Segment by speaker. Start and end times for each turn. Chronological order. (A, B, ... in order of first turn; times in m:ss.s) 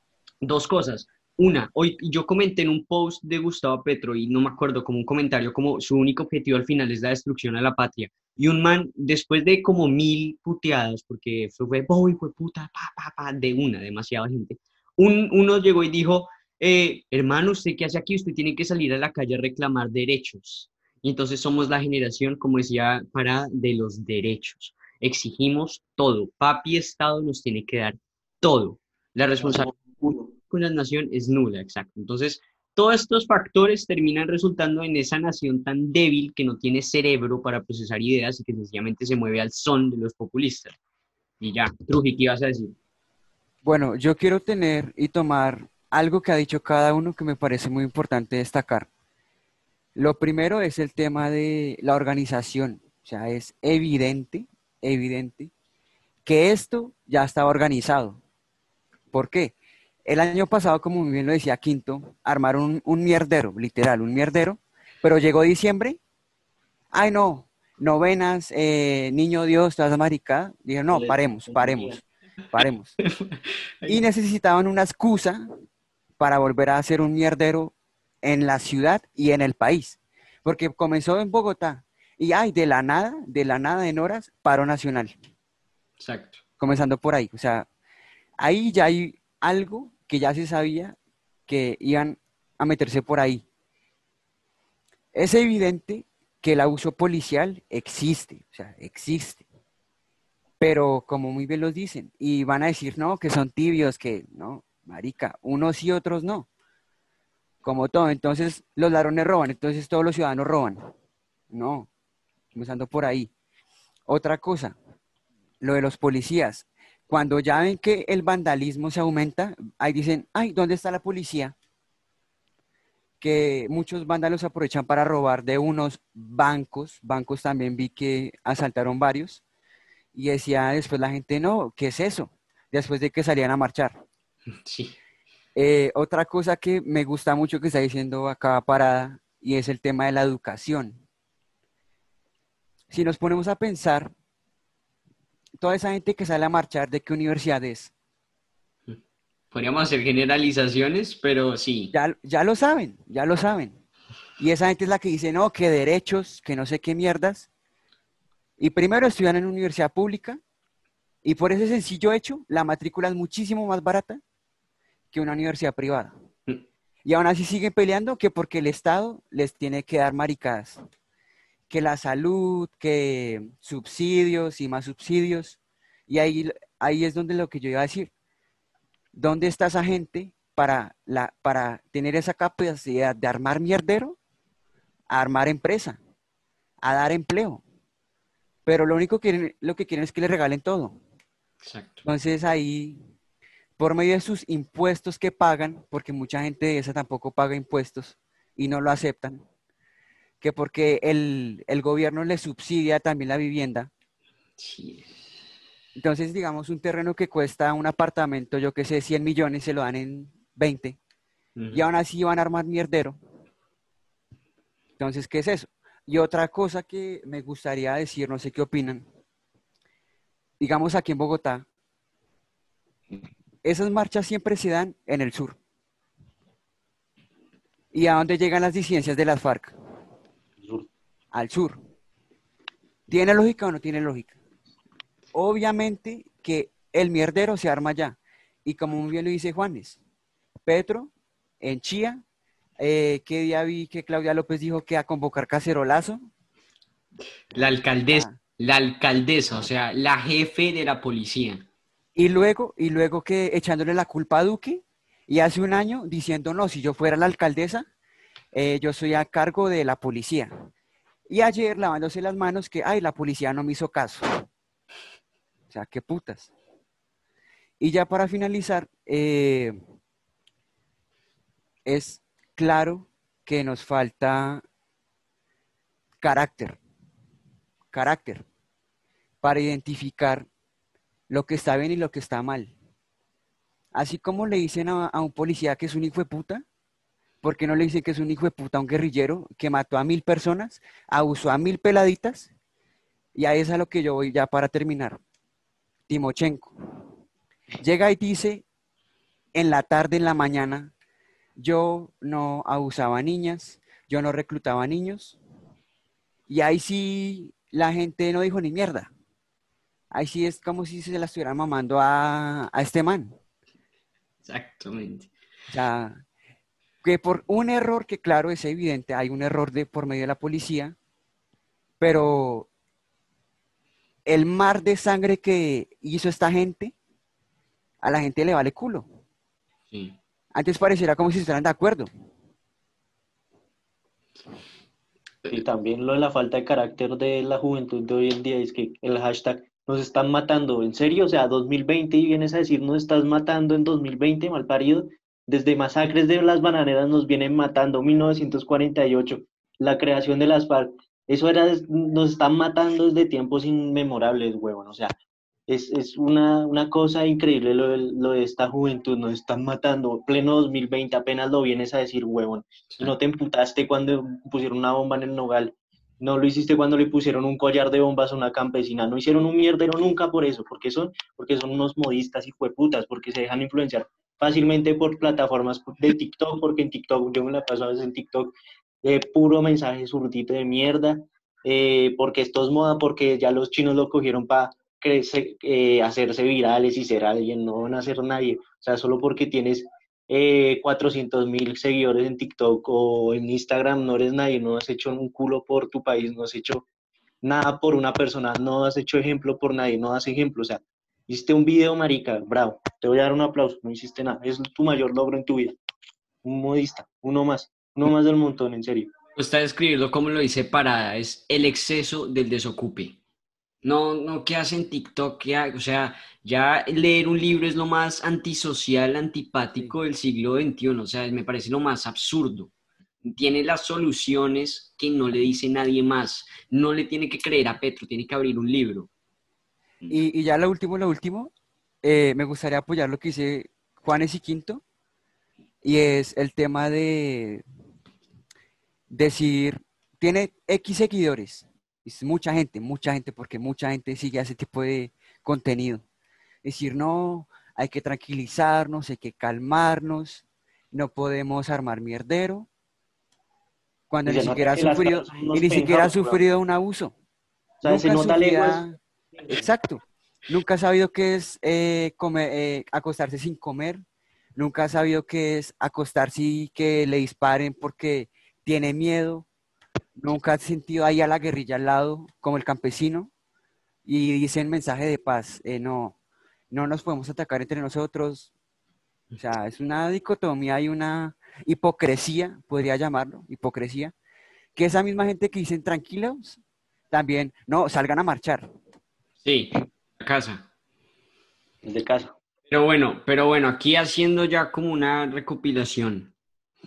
0:00.4-0:29.7 A
0:29.4-0:30.3 B
0:30.5-0:40.7 A
0:41.4-0:42.8 A
0:43.6-0:48.9 C
0:50.0-0:55.5 C
0:56.2-0:58.2 C
0:59.1-0:59.5 C
1:00.0-1:06.0 C
1:06.9-1:12.9 C
1:10.9-1:12.0 B
1:13.0-1:14.0 A
1:13.9-1:15.5 C
1:16.2-1:25.2 C
1:26.0-1:26.4 A
1:26.6-1:27.7 C
1:28.4-1:31.0 C
1:31.5-1:33.4 C
1:35.1-1:39.4 C
1:40.6-1:46.5 C
1:47.6-1:50.9 C
1:51.5-1:51.9 C
1:52.5-1:53.3 C
1:54.1-1:54.8 C
1:55.6-2:01.5 C
2:03.2-2:09.4 C
2:10.1-2:14.0 C
2:14.6-2:15.0 A
2:15.5-2:21.0 C
2:22.9-2:24.1 C
2:25.6-2:27.9 C
2:29.5-2:31.9 A
2:31.9-2:33.8 C
2:34.4-2:37.5 C
2:38.6-2:40.4 C
2:41.2-2:44.2 C
2:45.1-2:46.1 C
2:47.0-2:50.8 C
2:51.7-2:58.1 C
2:59.1-3:04.2 C
3:05.1-3:06.0 C
3:06.8-3:07.6 C
3:08.6-3:11.0 C
3:11.6-3:12.0 A
3:12.0-3:13.0 C
3:13.8-3:19.4 C
3:20.4-3:23.9 C
3:24.6-3:25.2 A
3:26.0-3:31.0 C
3:31.6-3:31.8 A
3:31.7-3:33.2 C
3:35.0-3:39.1 C
3:40.6-3:41.6 C
3:43.6-3:45.6 C
3:47.9-3:49.7 C
3:50.6-3:50.9 B
3:51.3-3:51.8 C
3:53.1-3:54.4 C
3:55.3-4:00.0 C
4:00.6-4:02.2 C
4:02.8-4:06.2 C
4:07.5-4:11.7 A
4:08.1-4:08.4 C
4:12.1-4:17.9 C
4:18.5-4:20.5 C
4:21.3-4:24.4 C
4:25.7-4:26.5 C
4:27.8-4:29.8 C
4:31.8-4:34.6 C
4:36.2-4:36.8 C
4:37.9-4:38.4 C
4:39.4-4:40.5 C
4:41.3-4:42.7 C
4:43.9-4:46.6 C
4:47.4-4:52.5 C
4:53.3-4:55.2 C
4:56.1-4:56.7 C
4:57.8-4:58.6 C
4:59.5-5:00.9 C
5:01.6-5:05.4 C
5:06.5-5:09.1 C
5:10.1-5:13.4 C
5:14.4-5:15.3 A
5:15.7-5:16.2 C
5:17.0-5:21.0 C
5:22.0-5:22.7 C
5:24.2-5:26.9 C
5:28.0-5:29.0 C
5:29.9-5:30.2 A
5:30.5-5:32.1 C
5:35.5-5:55.2 B
5:55.7-6:36.8 B
6:37.4-6:45.8 B
6:46.4-6:49.1 B
6:49.4-6:53.2 A
6:53.8-7:02.7 A
7:03.2-7:09.1 A
7:10.1-7:14.8 C
7:15.8-7:17.6 C
7:19.1-7:26.0 C
7:26.6-7:32.7 C
7:34.1-7:37.1 C
7:34.2-7:36.4 B
7:37.8-7:38.8 B
7:37.8-7:39.0 C
7:39.5-7:44.0 C
7:44.6-7:49.5 C
7:50.2-7:53.3 C
7:54.0-7:56.2 C
7:56.7-7:58.5 C
7:59.4-8:04.1 C
8:04.8-8:06.6 C
8:07.1-8:08.7 C
8:09.4-8:10.7 A
8:11.8-8:12.4 B
8:12.7-8:16.3 A